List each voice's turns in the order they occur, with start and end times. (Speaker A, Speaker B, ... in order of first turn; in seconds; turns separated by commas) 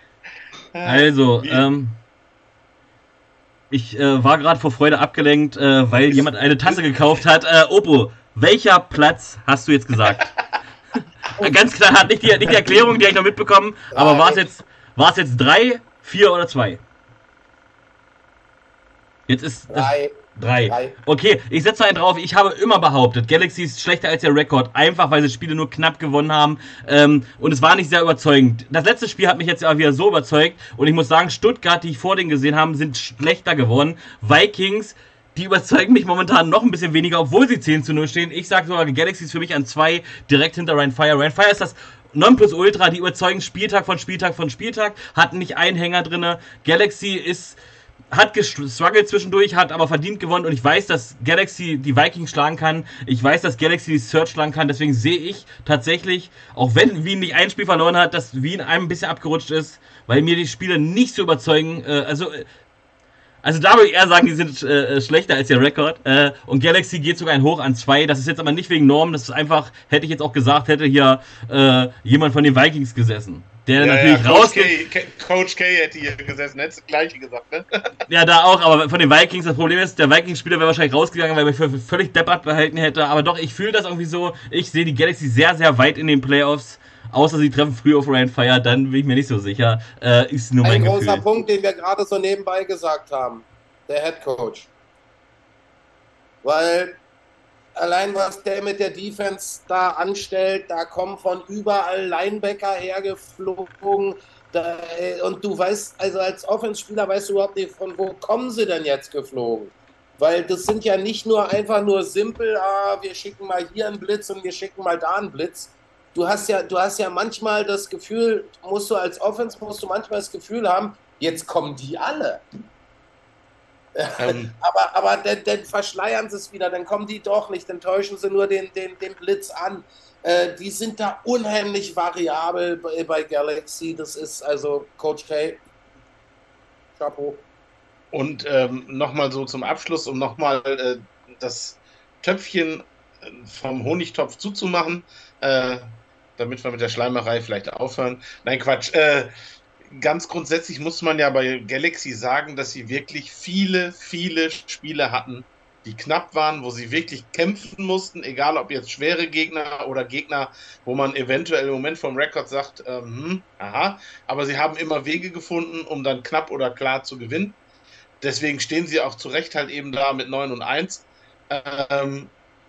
Speaker A: 0.7-1.6, Speaker B: 0.8-2.0, Speaker B: 3.7-10.3, Speaker B: 11.4-16.8, Speaker C: 13.9-14.4, Speaker B: 19.3-47.6, Speaker C: 19.7-20.1, Speaker C: 20.7-20.9, Speaker B: 48.1-62.5, Speaker B: 63.4-74.7, Speaker A: 73.8-77.9, Speaker B: 78.1-91.2, Speaker C: 90.6-94.7, Speaker C: 96.4-97.0, Speaker C: 97.8-122.4, Speaker C: 124.0-135.6, Speaker A: 124.2-124.5, Speaker C: 137.0-137.4, Speaker A: 138.1-149.3, Speaker A: 149.9-167.6, Speaker A: 168.2-172.3